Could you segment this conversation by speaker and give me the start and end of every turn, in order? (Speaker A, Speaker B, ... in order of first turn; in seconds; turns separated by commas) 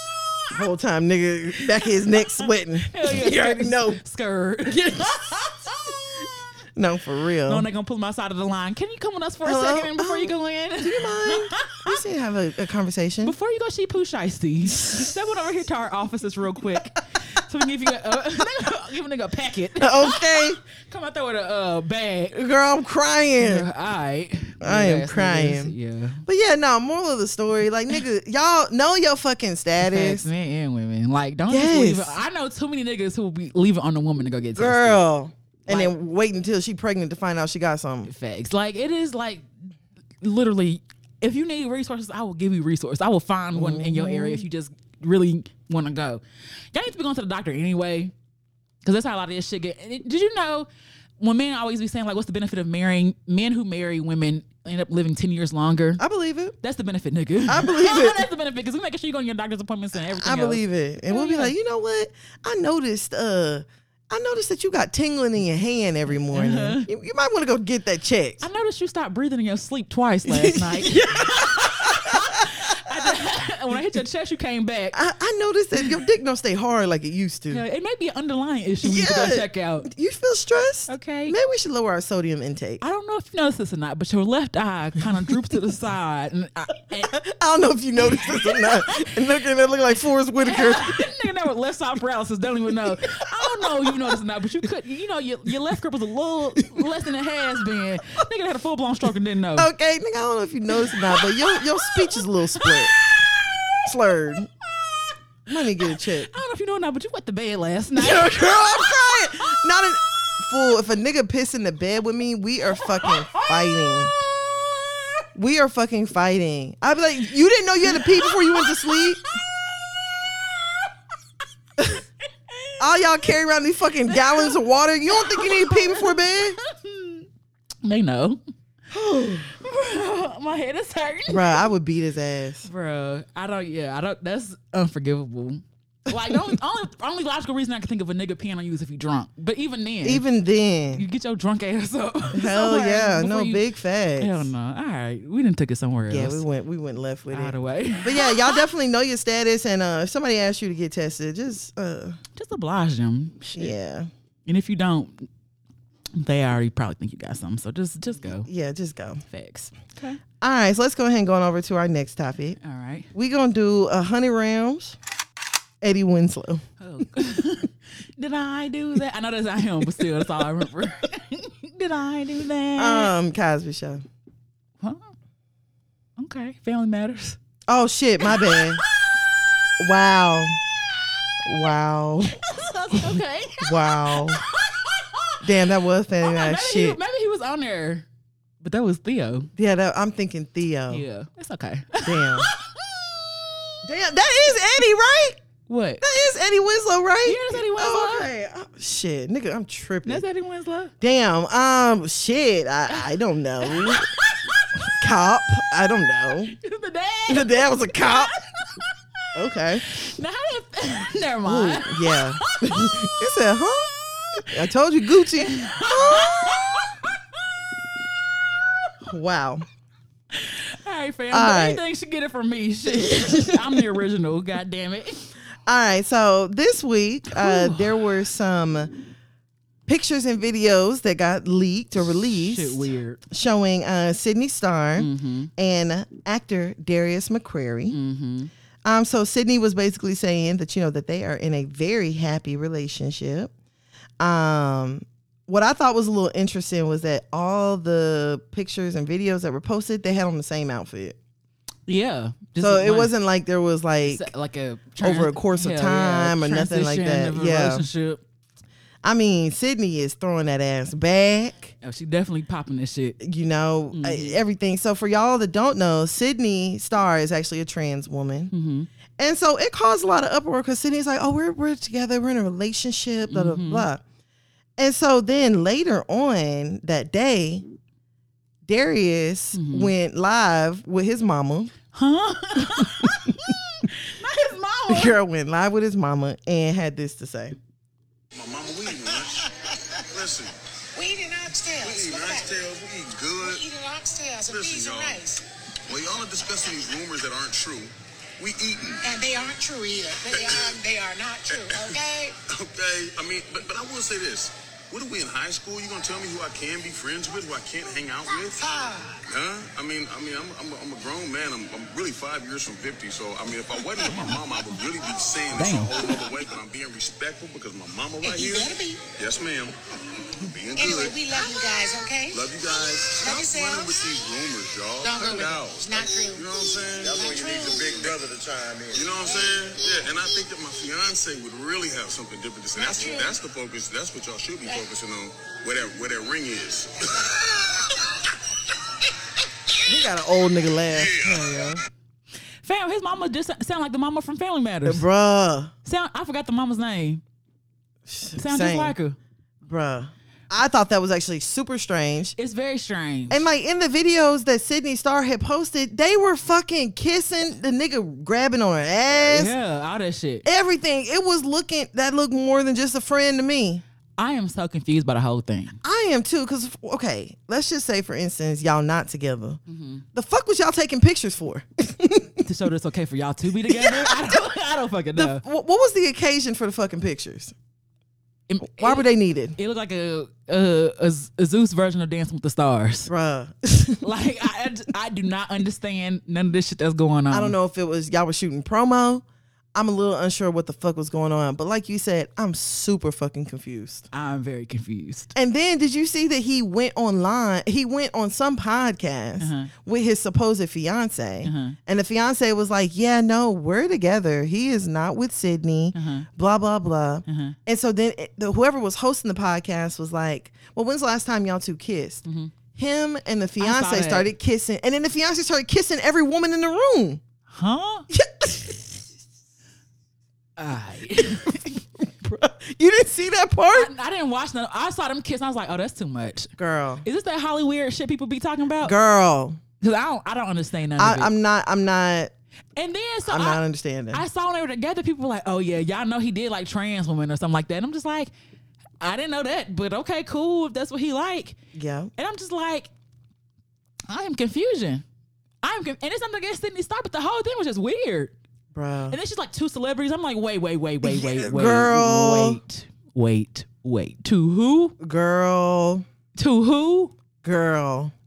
Speaker A: 0.5-4.0, Speaker B: 1.9-6.5, Speaker A: 4.7-5.4, Speaker A: 6.8-7.7, Speaker B: 7.5-12.0, Speaker A: 9.4-13.4, Speaker B: 13.2-22.4, Speaker A: 14.8-15.1, Speaker A: 19.8-20.6, Speaker A: 22.3-23.7, Speaker B: 23.4-26.2, Speaker A: 24.6-25.7, Speaker A: 26.2-30.3, Speaker B: 29.8-35.0, Speaker A: 31.5-32.2, Speaker A: 34.6-38.1, Speaker B: 35.7-35.9, Speaker B: 38.1-39.5, Speaker B: 40.2-46.2, Speaker A: 43.5-44.5, Speaker B: 46.7-48.1, Speaker B: 48.8-50.7, Speaker B: 51.2-56.0, Speaker A: 56.0-56.5, Speaker B: 56.6-61.5, Speaker A: 57.5-58.2, Speaker A: 60.0-68.4, Speaker B: 66.3-66.9, Speaker B: 68.4-75.0, Speaker A: 70.3-73.1, Speaker A: 74.9-77.6, Speaker B: 77.5-79.9, Speaker A: 78.8-82.8, Speaker B: 80.9-81.4, Speaker B: 82.8-87.2, Speaker A: 87.1-91.0, Speaker B: 88.1-89.1, Speaker B: 90.4-99.7, Speaker A: 93.1-94.2, Speaker A: 99.6-102.9, Speaker B: 100.8-103.8, Speaker A: 103.9-104.5, Speaker A: 105.5-106.3, Speaker B: 106.0-109.6, Speaker A: 108.0-114.1, Speaker B: 112.9-115.1, Speaker A: 115.3-119.2, Speaker B: 117.9-120.9, Speaker B: 122.5-123.3, Speaker A: 122.8-126.6, Speaker B: 124.1-124.5, Speaker B: 125.1-127.3, Speaker B: 127.8-128.4, Speaker A: 128.9-129.5, Speaker B: 129.5-131.7, Speaker A: 131.3-132.7, Speaker B: 132.6-140.2, Speaker A: 140.0-141.1, Speaker B: 140.9-143.6, Speaker A: 142.3-144.5, Speaker B: 144.2-146.4, Speaker A: 146.1-152.2, Speaker B: 147.3-148.6, Speaker B: 152.4-153.7, Speaker A: 153.5-154.1, Speaker B: 154.5-155.3, Speaker B: 156.2-158.5, Speaker A: 158.3-159.2, Speaker B: 159.3-160.2, Speaker A: 160.4-162.6, Speaker B: 162.6-163.1, Speaker A: 163.1-165.0, Speaker A: 165.8-166.6, Speaker B: 166.8-173.1, Speaker A: 172.8-174.0, Speaker B: 174.8-175.1, Speaker B: 176.2-177.4, Speaker A: 177.7-178.8, Speaker B: 178.2-179.7, Speaker A: 179.8-180.6, Speaker A: 181.4-182.4, Speaker B: 182.4-185.4, Speaker A: 182.9-184.4, Speaker A: 185.4-187.0, Speaker B: 186.2-188.1, Speaker B: 188.6-189.5, Speaker A: 189.6-191.1, Speaker B: 190.9-193.8, Speaker A: 192.1-192.5, Speaker A: 193.8-195.4, Speaker B: 195.7-196.0, Speaker A: 196.0-200.2, Speaker B: 197.2-198.3, Speaker B: 200.1-200.9, Speaker A: 201.0-204.1, Speaker B: 203.6-204.7, Speaker A: 204.8-206.6, Speaker B: 206.6-208.9, Speaker A: 207.3-208.3, Speaker A: 209.3-209.9, Speaker B: 209.9-213.2, Speaker A: 211.4-213.9, Speaker B: 214.0-214.5, Speaker A: 214.4-216.8, Speaker B: 215.3-217.1, Speaker A: 219.1-219.7, Speaker B: 220.3-225.3, Speaker A: 221.3-221.8, Speaker A: 223.0-223.8, Speaker A: 225.7-229.0, Speaker B: 227.3-227.9, Speaker A: 229.9-238.0, Speaker B: 232.3-233.2, Speaker B: 235.0-235.5, Speaker B: 237.9-238.5, Speaker A: 238.8-243.5, Speaker A: 244.2-251.2, Speaker B: 251.9-253.1, Speaker A: 252.6-254.3, Speaker B: 254.1-258.2, Speaker A: 255.0-257.9, Speaker A: 259.0-261.8, Speaker B: 261.8-263.2, Speaker A: 263.2-268.5, Speaker B: 263.9-264.4, Speaker B: 268.5-268.9, Speaker A: 269.2-274.0, Speaker B: 273.3-273.9, Speaker A: 274.8-277.6, Speaker A: 278.6-281.7, Speaker B: 279.5-279.9, Speaker B: 281.9-285.2, Speaker A: 282.6-283.1, Speaker A: 284.9-287.6, Speaker C: 288.3-289.5, Speaker C: 290.1-290.5, Speaker D: 290.9-292.6, Speaker C: 291.8-293.6, Speaker D: 293.4-295.4, Speaker C: 294.5-295.2, Speaker C: 295.9-299.0, Speaker D: 299.0-302.4, Speaker C: 300.3-300.8, Speaker C: 301.5-308.6, Speaker D: 308.3-309.2, Speaker C: 309.3-321.4, Speaker B: 314.1-314.4, Speaker B: 315.5-316.0, Speaker D: 318.2-319.1, Speaker D: 320.8-322.5, Speaker C: 322.3-328.3, Speaker D: 323.1-324.2, Speaker D: 325.0-328.0, Speaker C: 328.9-337.9, Speaker D: 332.8-333.4, Speaker A: 339.8-341.2, Speaker C: 340.9-341.7, Speaker B: 341.2-341.8, Speaker B: 342.6-345.1, Speaker A: 344.9-345.7, Speaker B: 345.9-347.2, Speaker A: 348.1-349.0, Speaker B: 348.4-349.2, Speaker A: 349.6-352.4, Speaker B: 352.4-353.5, Speaker A: 353.3-359.5, Speaker B: 359.1-360.5, Speaker A: 360.4-363.8, Speaker B: 364.2-365.8, Speaker A: 365.8-369.6, Speaker B: 369.7-370.0, Speaker A: 370.1-372.4, Speaker B: 372.4-375.4, Speaker A: 373.7-374.2, Speaker A: 375.1-377.6, Speaker B: 378.5-383.1, Speaker A: 378.7-379.6, Speaker A: 383.1-384.0, Speaker B: 384.0-387.6, Speaker A: 387.3-389.2, Speaker A: 389.8-394.1, Speaker B: 394.1-395.3, Speaker A: 395.4-417.2, Speaker B: 399.4-399.7, Speaker B: 401.4-401.8, Speaker B: 405.9-406.3, Speaker B: 407.3-407.6, Speaker B: 412.2-412.5, Speaker B: 413.6-414.3, Speaker B: 417.5-418.1, Speaker A: 418.1-419.0, Speaker B: 420.6-421.8, Speaker A: 422.0-423.9, Speaker B: 423.7-426.5, Speaker A: 426.6-427.1, Speaker B: 427.0-428.9, Speaker A: 428.8-429.6, Speaker B: 429.8-431.3, Speaker A: 431.0-432.3, Speaker B: 432.8-433.6, Speaker A: 433.3-434.2, Speaker B: 434.1-438.3, Speaker B: 439.0-441.6, Speaker A: 441.8-442.1, Speaker B: 442.2-442.9, Speaker B: 444.1-445.0, Speaker B: 445.6-448.3, Speaker A: 448.7-449.2, Speaker B: 449.1-454.9, Speaker A: 451.0-452.6, Speaker A: 455.0-456.1, Speaker B: 456.4-457.1, Speaker A: 457.4-458.1